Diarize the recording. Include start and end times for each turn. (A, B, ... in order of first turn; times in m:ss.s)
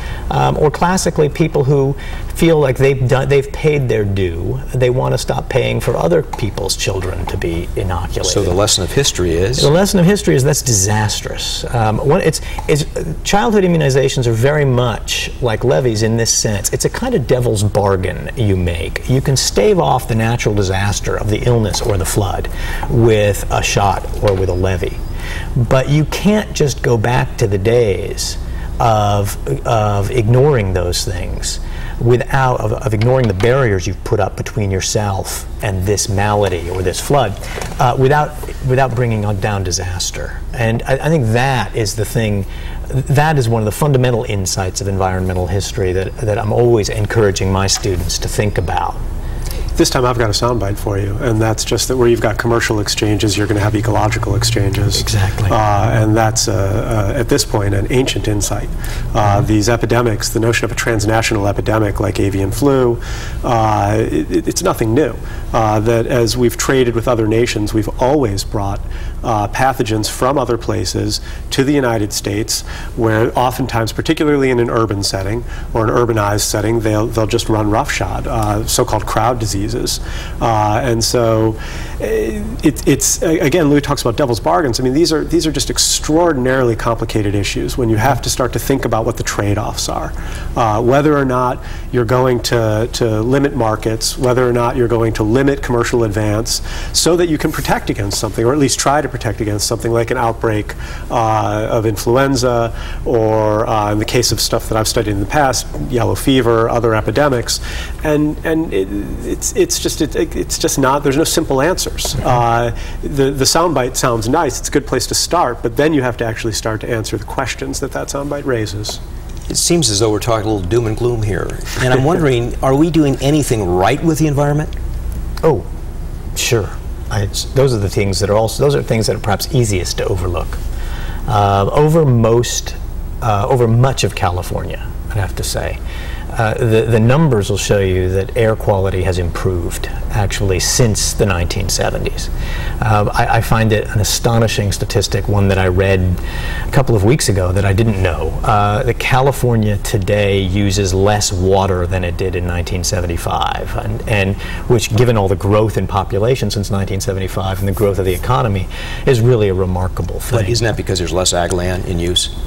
0:00.3-0:08.5 A
0:08.2-0:09.7 B
0:09.6-0:25.0 A
0:25.6-0:49.0 A
0:49.8-1:59.0 C
0:55.0-0:55.6 A
1:59.5-2:04.7 B
2:06.3-2:10.6 A
2:11.3-2:15.8 A
2:16.3-2:40.6 A
2:40.3-2:42.3 B